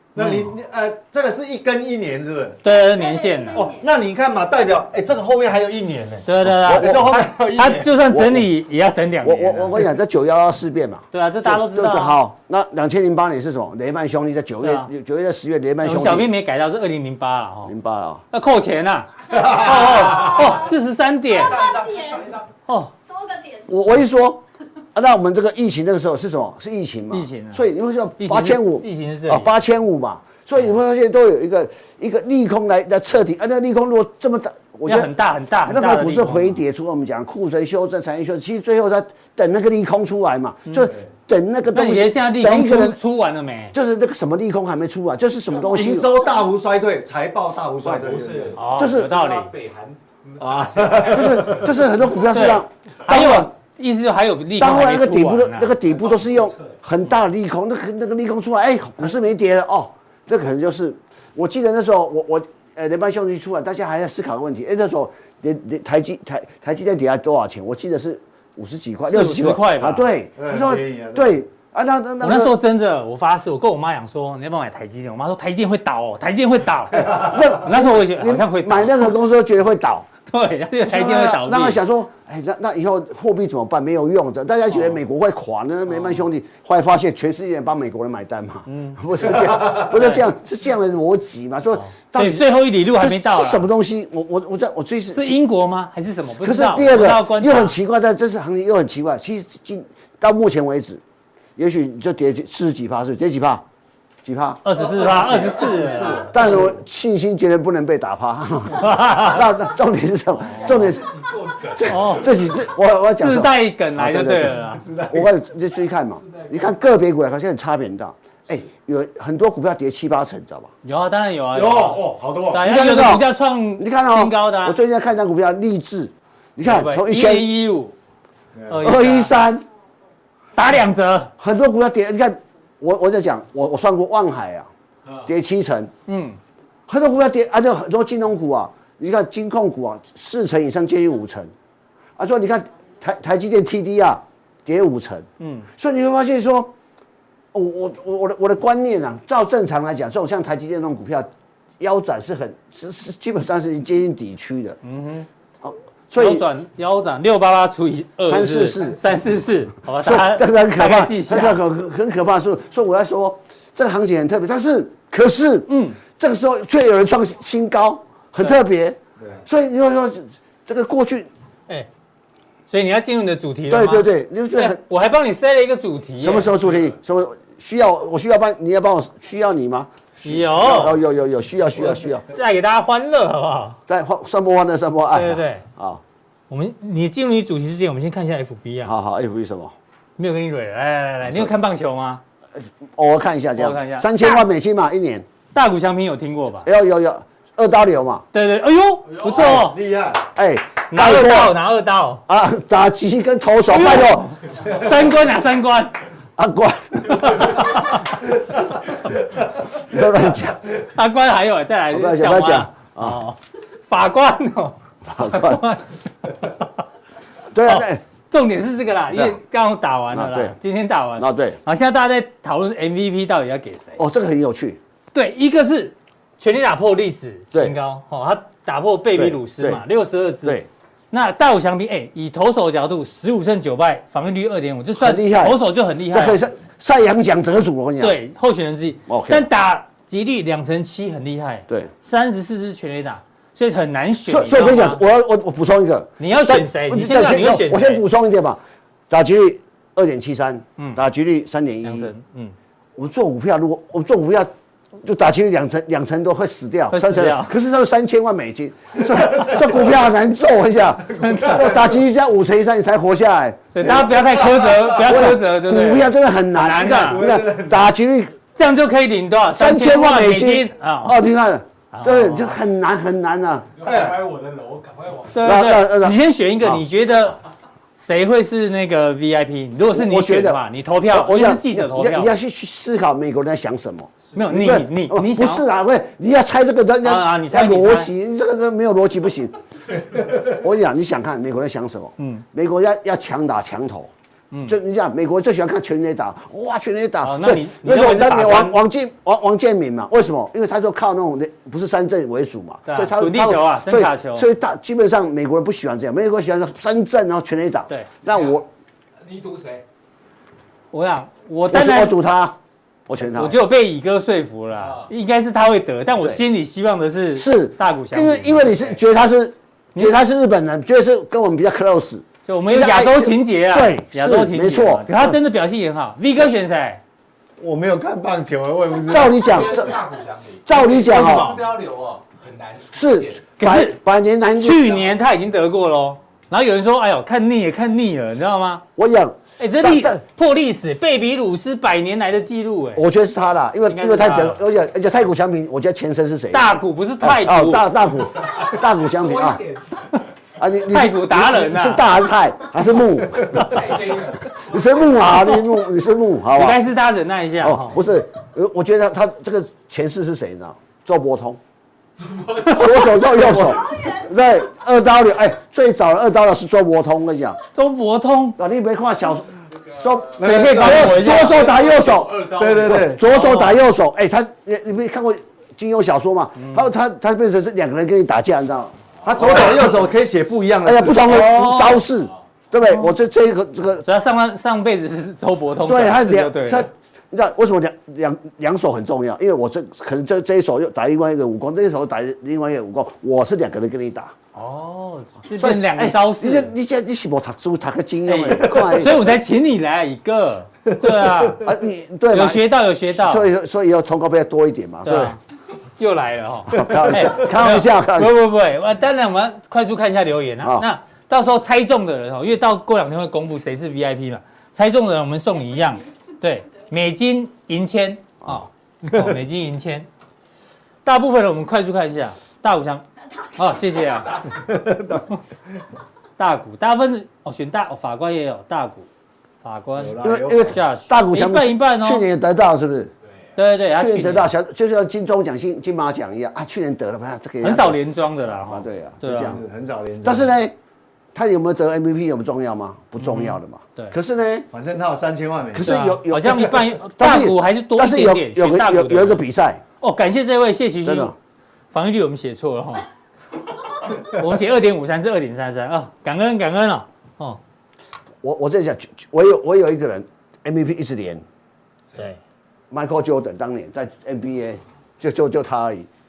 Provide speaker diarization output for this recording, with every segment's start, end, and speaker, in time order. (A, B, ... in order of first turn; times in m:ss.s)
0:00.1-0:02.6 A
0:00.2-0:00.5 B
0:02.6-0:03.7 B
0:03.5-0:07.9 A
0:06.2-0:09.8 B
0:06.6-0:07.0 C
0:08.1-0:08.5 C
0:09.2-0:16.3 C
0:11.1-0:12.2 B
0:14.6-0:14.9 B
0:15.8-0:17.7 B
0:17.6-0:18.2 C
0:18.3-0:21.7 B
0:19.6-0:20.6 D
0:21.3-0:22.4 D
0:22.7-0:22.9 B
0:23.6-0:35.1 C
0:27.1-0:27.6 B
0:28.2-0:29.5 B
0:34.9-0:36.6 B
0:35.6-0:43.0 C
0:41.7-0:43.7 B
0:43.7-0:46.2 C
0:45.6-0:48.6 A
0:47.8-0:51.8 D
0:48.6-0:49.5 B
0:48.7-0:49.2 C
0:50.4-0:51.7 A
0:51.1-0:53.5 C
0:52.3-0:55.7 B
0:54.6-1:12.5 C
0:55.8-0:56.8 D
1:09.1-1:10.1 B
1:10.4-1:11.3 A
1:12.2-1:19.1 B
1:16.9-1:20.1 C
1:20.3-1:21.8 B
1:20.8-1:35.4 C
1:25.9-1:26.2 B
1:28.7-1:29.0 B
1:29.7-1:30.2 B
1:31.8-1:33.7 B
1:35.1-1:37.8 B
1:36.4-1:41.0 C
1:41.6-1:43.6 C
1:44.2-1:44.6 C
1:44.6-1:46.3 B
1:44.7-1:46.7 D
1:45.4-1:46.6 A
1:46.3-1:51.1 C
1:48.7-1:49.5 B
1:50.4-1:52.4 D
1:51.7-2:00.7 C
1:51.8-1:52.4 B
1:53.2-1:54.8 B
1:54.8-1:55.4 D
1:56.1-1:56.8 D
2:00.8-2:04.8 B
2:01.5-2:02.6 A
2:02.6-2:03.2 C
2:03.8-2:07.5 C
2:06.6-2:07.9 B
2:08.6-2:08.8 A
2:08.7-2:09.4 B
2:08.8-2:09.6 C
2:10.6-2:11.3 B
2:11.4-2:14.7 C
2:15.2-2:15.9 C
2:16.1-2:16.4 B
2:16.9-2:21.5 C
2:22.2-2:26.7 C
2:25.4-2:25.7 B
2:27.5-2:31.3 C
2:31.8-2:34.8 C
2:34.8-2:35.3 B
2:35.6-2:36.5 C
2:36.2-2:41.6 B
2:38.3-2:39.0 C
2:40.0-2:51.3 C
2:45.7-2:46.0 B
2:52.7-2:56.5 B
2:53.7-2:54.8 C
2:56.2-3:02.2 C
3:00.2-3:01.0 B
3:02.3-3:03.8 B
3:03.9-3:06.0 C
3:05.1-3:05.6 B
3:06.5-3:08.9 B
3:08.8-3:09.7 C
3:10.2-3:12.2 B
3:11.2-3:11.5 C
3:12.9-3:15.2 C
3:13.6-3:14.4 B
3:15.5-3:16.7 B
3:16.6-3:18.2 C
3:18.3-3:19.8 B
3:19.2-3:20.2 A
3:20.3-3:21.6 C
3:20.9-3:22.2 B
3:22.3-3:24.4 C
3:23.7-3:26.0 B
3:26.4-3:27.8 C
3:27.2-3:27.9 B
3:29.7-3:30.7 C
3:30.8-3:36.6 B
3:31.9-3:33.2 C
3:35.1-3:35.6 C
3:37.5-3:38.0 C
3:37.6-3:44.0 B
3:40.1-3:40.6 C
3:41.2-3:41.6 C
3:44.0-3:44.8 C
3:45.1-3:50.6 B
3:49.1-3:49.8 C
3:51.1-3:56.4 B
3:55.0-3:58.2 C
3:58.0-4:05.0 B
3:59.1-3:59.4 C
4:04.3-4:12.1 C
4:06.2-4:08.0 B
4:11.8-4:12.5 B
4:13.0-4:14.5 C
4:15.0-4:28.4 C
4:16.9-4:17.6 B
4:21.1-4:21.8 B
4:23.7-4:27.2 B
4:27.1-4:27.8 A
4:28.5-4:31.2 B
4:29.5-4:33.7 C
4:31.9-4:32.6 B
4:33.8-4:35.5 D
4:33.8-4:34.2 A
4:35.3-4:37.4 B
4:35.4-4:36.8 C
4:38.0-4:42.3 B
4:39.9-4:54.1 C
4:44.3-4:45.6 B
4:47.0-4:48.1 B
4:52.2-4:52.4 B
4:54.5-4:54.8 B
4:54.7-5:08.6 C
4:57.2-4:58.7 B
5:02.9-5:04.4 B
5:08.3-5:08.6 D
5:09.2-5:09.8 D
5:10.9-5:12.2 B
5:11.7-5:12.6 C
5:13.1-5:13.6 C
5:13.3-5:18.9 B
5:14.8-5:15.1 D
5:17.4-5:25.4 C
5:22.4-5:27.0 B
5:27.6-5:29.5 A
5:29.1-5:30.0 C
5:29.3-5:33.4 D
5:30.7-5:31.6 C
5:31.1-5:31.5 B
5:32.9-5:35.1 C
5:33.6-5:34.0 B
5:34.6-5:38.8 B
5:39.0-5:40.2 C
5:39.6-5:43.0 B
5:42.9-5:49.6 C
5:43.9-5:44.6 B
5:46.5-5:47.9 B
5:48.4-5:50.1 D
5:50.6-5:56.8 C
5:50.9-5:52.1 B
5:53.5-5:55.2 D
5:56.5-5:58.0 B
5:57.6-6:01.6 C
6:02.2-6:03.6 D
6:02.6-6:07.6 C
6:07.7-6:08.6 B
6:08.6-6:20.0 C
6:09.9-6:13.1 D
6:10.4-6:11.2 A
6:10.4-6:11.6 B
6:12.5-6:13.2 A
6:13.2-6:13.8 B
6:16.6-6:16.9 B
6:19.2-6:21.4 A
6:20.8-6:24.0 C
6:21.2-6:22.0 B
6:24.0-6:26.9 B
6:25.8-6:34.3 C
6:34.5-6:36.7 B
6:35.5-6:39.4 C
6:38.2-6:41.6 B
6:41.6-6:45.4 C
6:42.3-6:43.5 B
6:45.0-6:45.4 B
6:46.0-7:00.1 B
6:46.7-6:48.4 C
7:01.0-7:04.5 B
7:04.7-7:05.2 A
7:06.4-7:09.1 B
7:09.6-7:12.2 B
7:10.0-7:10.8 A
7:10.2-7:13.1 C
7:13.6-7:14.5 B
7:13.9-7:18.0 C
7:17.6-7:19.6 B
7:18.6-7:19.6 C
7:19.3-7:20.5 A
7:20.2-7:20.7 C
7:21.3-7:24.7 C
7:23.2-7:24.2 B
7:24.7-7:26.0 A
7:25.7-7:29.8 C
7:25.8-7:29.4 B
7:30.0-7:31.3 B
7:31.0-7:31.3 C
7:31.9-7:33.1 B
7:33.9-7:37.6 B
7:38.4-7:41.4 C
7:42.1-7:42.4 B
7:42.9-7:46.1 C